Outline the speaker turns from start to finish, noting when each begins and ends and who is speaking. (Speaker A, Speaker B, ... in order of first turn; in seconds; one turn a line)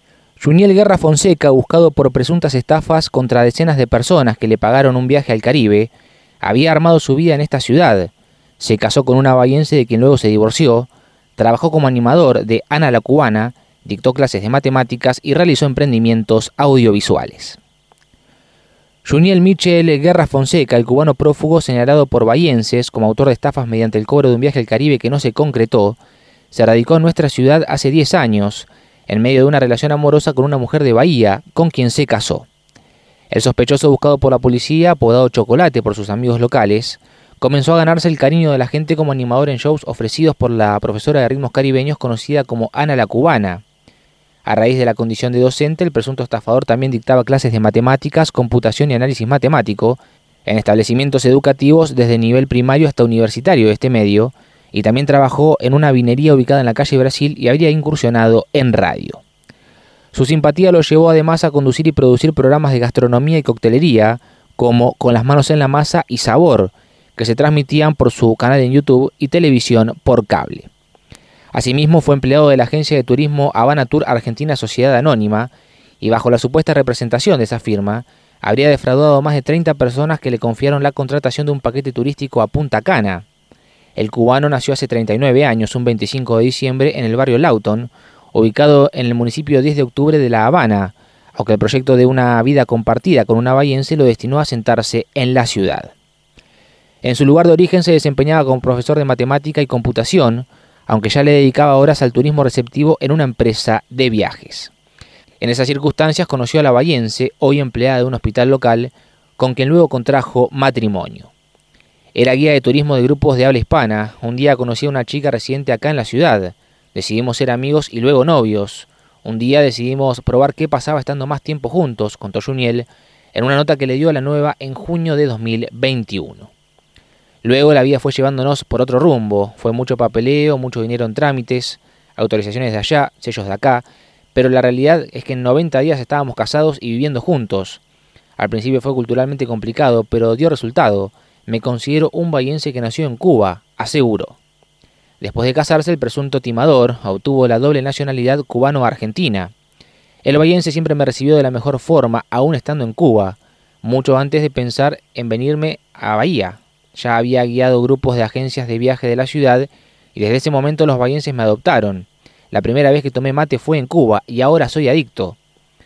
Speaker A: 0.4-5.9
Speaker A: 6.4-17.6
Speaker A: 19.0-26.0
Speaker A: 26.5-32.5
Speaker A: 33.3-43.6
Speaker A: 44.5-59.2
Speaker A: 60.1-70.7
Speaker A: 71.5-83.2
Speaker A: 84.0-95.9
Speaker A: 97.0-104.7
Speaker A: 105.4-111.3
Speaker A: 112.1-126.5
Speaker A: 127.4-137.8
Speaker A: 138.4-144.4
Speaker A: 145.2-149.5
Speaker A: 150.2-165.4